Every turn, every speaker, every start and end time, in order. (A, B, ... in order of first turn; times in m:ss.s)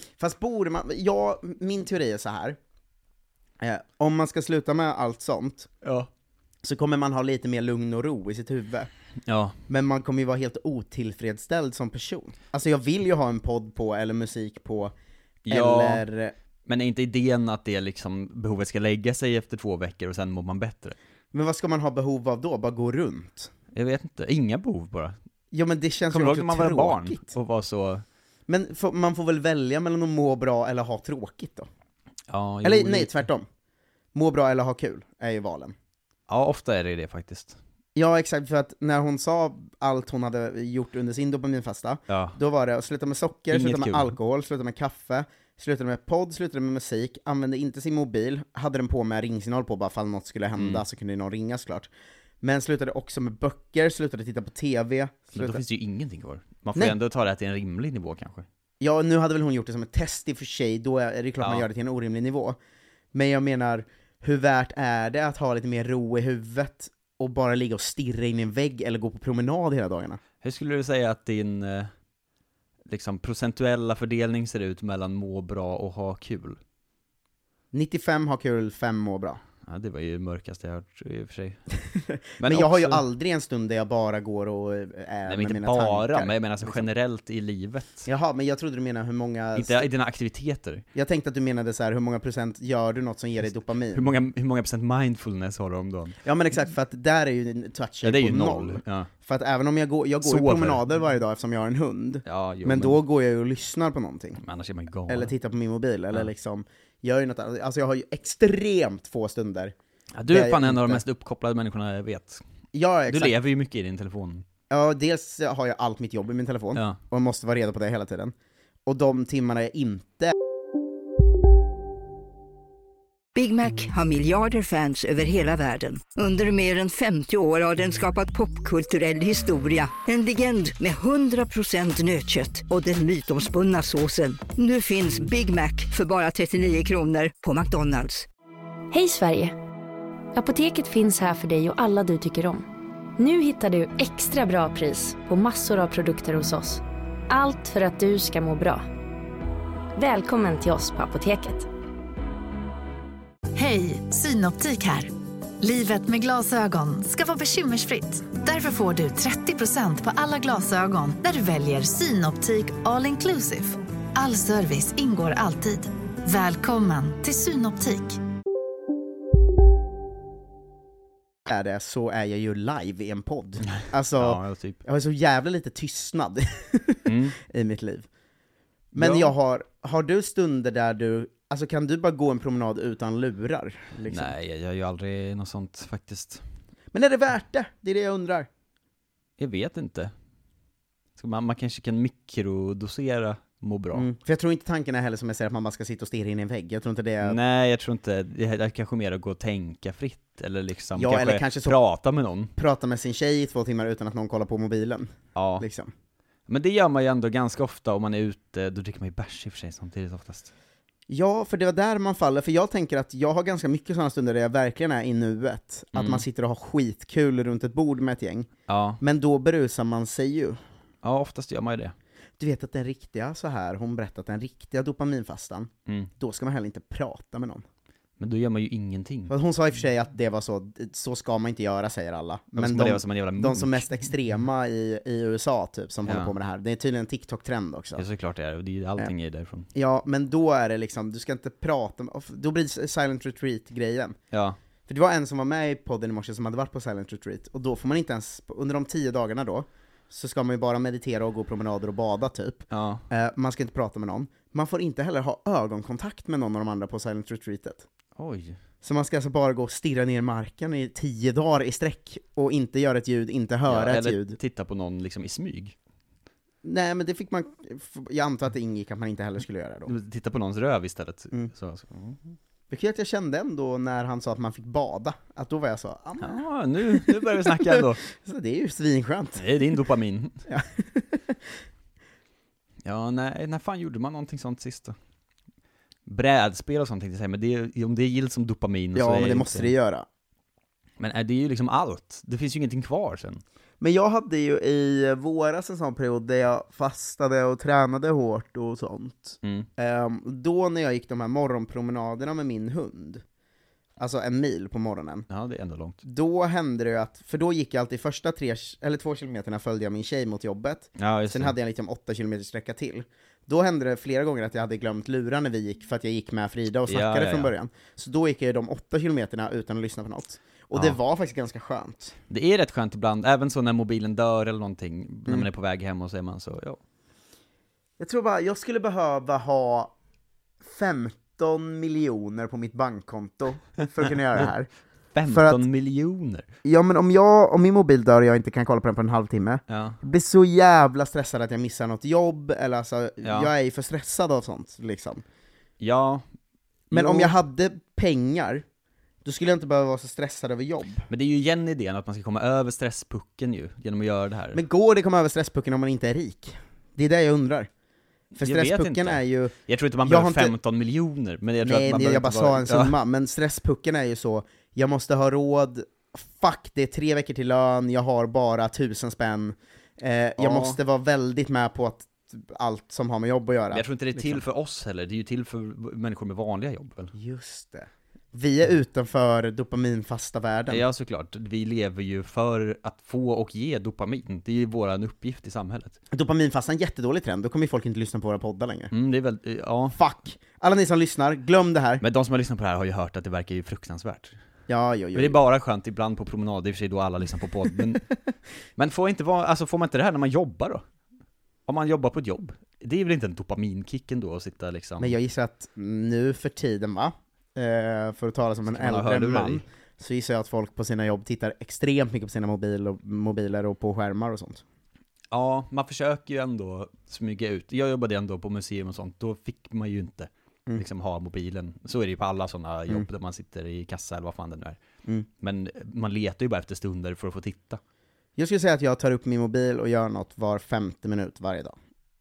0:00.2-0:02.6 A
0:03.6-0:05.7 A
0:05.8-0:06.1 B
0:06.6-0:08.9 A
0:09.2-0:09.6 B
0:09.7-0:14.9 A
0:15.4-0:16.0 B
0:15.5-0:16.3 A
0:16.6-0:20.9 B
0:21.3-0:23.5 A
0:23.7-0:25.2 B
0:25.5-0:27.4 A
0:26.1-0:28.0 B
0:28.5-0:31.7 A
0:32.3-0:33.1 B
0:32.6-0:33.4 A
0:34.1-0:35.7 A
0:36.3-0:37.6 B
0:37.9-0:51.9 A
0:42.1-0:42.4 B
0:43.5-0:44.1 B
0:50.6-0:50.8 B
0:52.4-0:55.6 A
0:55.3-0:58.4 B
0:58.8-1:02.6 A
1:03.1-1:10.2 A
1:10.4-1:11.9 B
1:12.9-1:16.6 B
1:17.7-1:19.4 A
1:19.7-1:21.6 B
1:21.9-1:26.8 A
1:22.4-1:23.0 B
1:25.2-1:28.0 B
1:28.0-1:29.9 A
1:29.5-1:30.8 B
1:30.9-1:34.1 A
1:33.9-1:36.2 B
1:36.2-1:44.4 A
1:38.0-1:39.1 B
1:40.2-1:40.8 B
1:42.2-1:43.0 B
1:44.4-1:45.3 B
1:45.1-1:49.7 A
1:50.2-1:52.4 B
1:50.3-1:51.0 A
1:52.7-1:53.4 A
1:53.1-1:54.4 B
1:54.7-1:58.3 A
1:58.8-2:00.3 A
2:03.3-2:18.2 C
2:18.9-2:19.5 D
2:20.3-2:22.6 D
2:23.2-2:28.8 D
2:30.0-2:31.7 D
2:33.5-2:48.2 E
2:51.5-2:58.0 A
2:53.6-2:54.8 B
2:57.0-2:57.4 B
2:58.9-3:04.3 A
2:59.0-2:59.3 B
3:04.1-3:06.4 B
3:06.9-3:08.5 A
3:09.4-3:10.1 B
3:11.2-3:14.0 B
3:13.9-3:17.4 A
3:17.2-3:22.5 B
3:20.9-3:21.8 A
3:22.6-3:25.9 A
3:25.3-3:25.6 B
3:26.5-3:30.5 B
3:31.1-3:38.5 A
3:35.9-3:36.2 B
3:38.7-3:39.0 B
3:39.0-3:40.6 A
3:41.0-3:41.9 B
3:42.4-3:47.6 A
3:48.2-3:49.3 B
3:49.3-3:58.0 A
3:52.6-3:53.8 B
3:56.0-3:56.3 B
3:58.0-3:59.7 B
3:59.7-4:04.2 A
4:04.3-4:04.6 B
4:04.9-4:17.8 A
4:12.7-4:13.0 B
4:18.2-4:18.6 B
4:18.8-4:24.4 A
4:23.6-4:25.7 B
4:26.6-4:29.9 A
4:29.9-4:32.4 B
4:32.7-4:39.5 A
4:36.2-4:38.0 B
4:39.4-4:40.4 B
4:40.5-4:41.4 A
4:42.8-4:45.0 B
4:46.1-4:49.7 B
4:48.9-4:50.0 A
4:51.0-4:53.4 B
4:53.8-5:03.2 A
4:59.4-4:59.7 B
5:04.0-5:05.3 A
5:05.3-5:06.0 B
5:06.0-5:22.1 A
5:11.0-5:11.5 B
5:16.9-5:17.5 B
5:22.3-5:26.8 B
5:28.0-5:29.9 A
5:30.6-5:34.7 A
5:35.1-5:36.4 B
5:35.3-5:35.6 A
5:36.6-5:45.2 A
5:39.7-5:40.0 B
5:43.2-5:43.5 B
5:45.8-5:46.2 B
5:46.9-5:47.4 B
5:46.9-5:48.6 A
5:49.2-5:51.1 A
5:51.1-5:54.6 B
5:54.5-5:57.7 A
5:58.4-6:00.6 A
5:58.4-6:03.0 B
6:01.6-6:14.4 A
6:10.4-6:10.8 B
6:13.7-6:17.1 B
6:17.1-6:20.8 A
6:20.7-6:26.0 B
6:26.1-6:28.9 A
6:28.9-6:30.0 B
6:29.9-6:32.0 A
6:32.0-6:34.4 B
6:34.7-6:35.4 A
6:35.1-6:38.1 B
6:38.8-6:40.8 B
6:41.7-6:45.1 B
6:45.0-6:54.6 A
6:48.7-6:49.6 B
6:55.3-7:04.8 B
7:05.4-7:07.8 B
7:08.4-7:11.7 A